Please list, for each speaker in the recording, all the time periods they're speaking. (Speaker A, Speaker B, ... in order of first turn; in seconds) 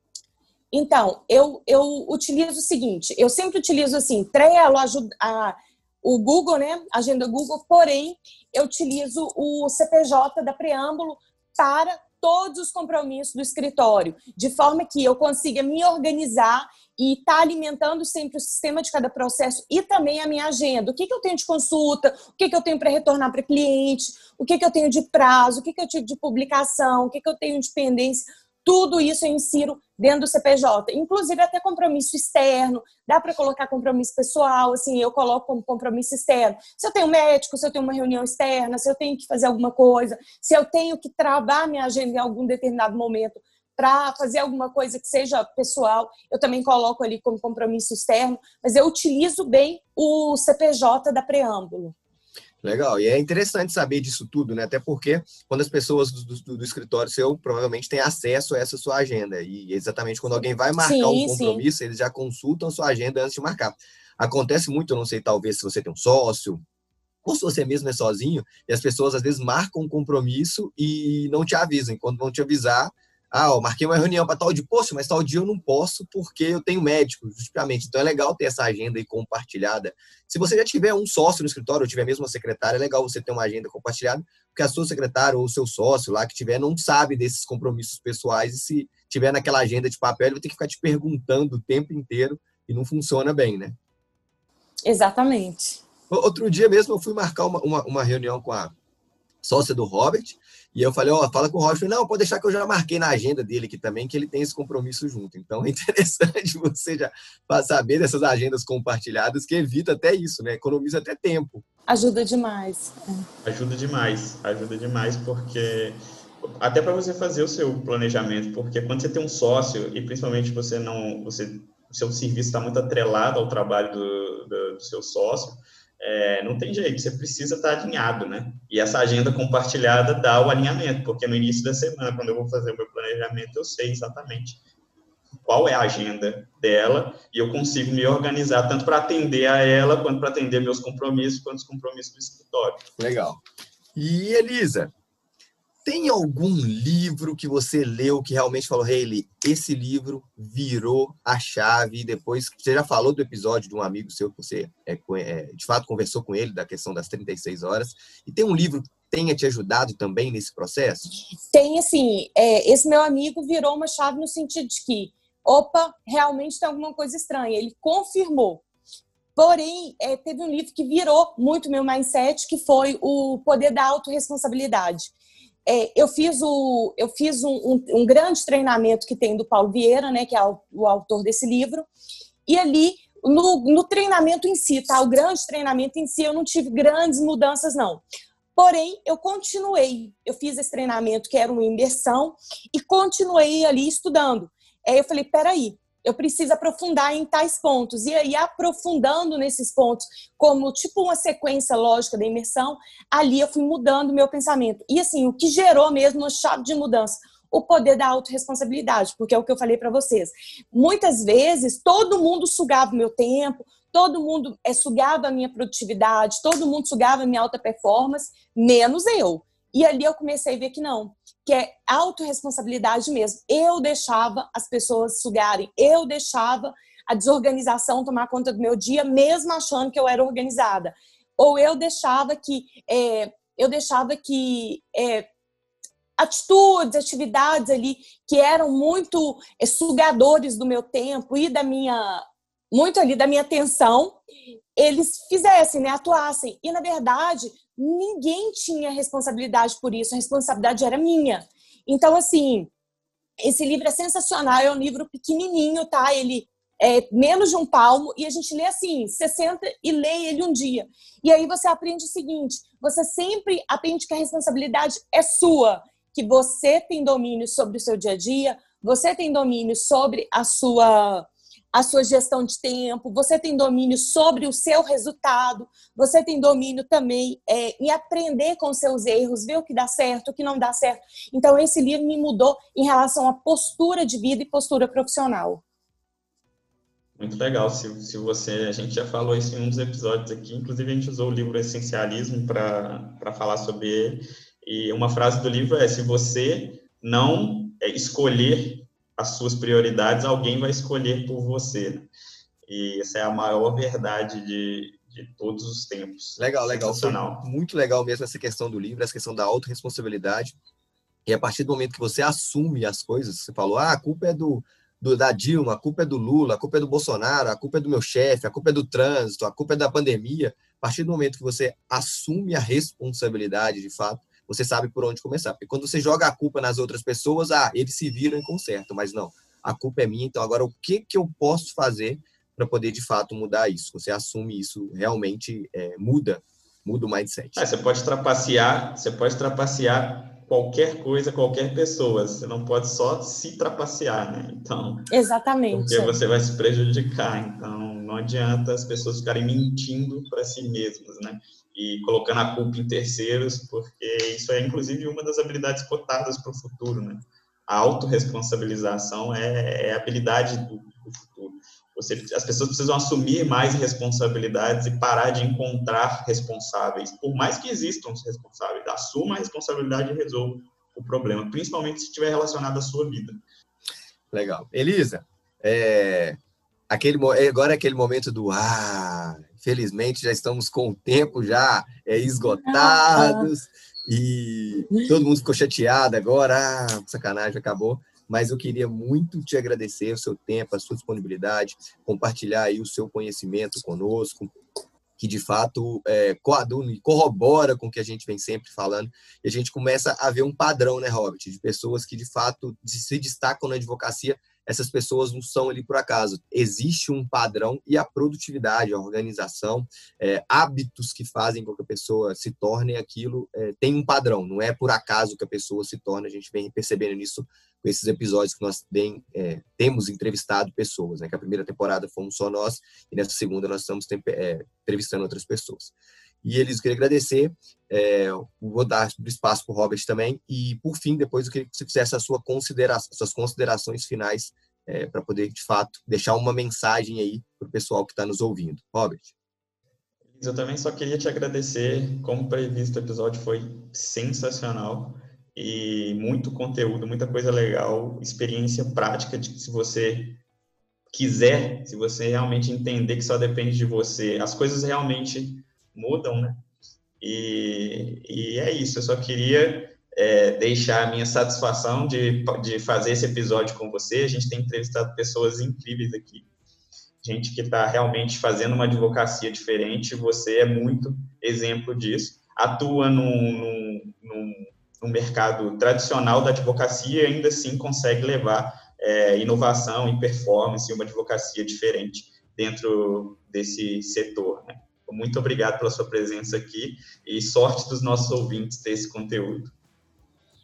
Speaker A: 0.7-52.0, 60.8-61.6, 94.9-95.8, 111.9-113.3, 161.5-168.6, 169.4-175.1, 175.7-181.9, 182.5-188.0, 188.6-235.3, 236.2-244.2, 244.8-252.7, 253.4-285.6, 345.1-346.2, 382.5-383.5
Speaker B: 52.6-66.6, 67.2-93.8, 96.1-98.8, 99.4-111.6, 143.0-143.4, 143.9-144.9, 145.8-161.1, 306.4-310.6, 311.3-337.6, 374.3-376.4, 376.9-394.5, 395.2-439.3
Speaker C: 113.4-134.6, 135.4-142.8, 287.2-302.1, 302.7-307.4, 337.6-345.1, 345.7-373.4, 440.3-450.4, 451.1-456.6, 457.2-466.5, 467.2-489.7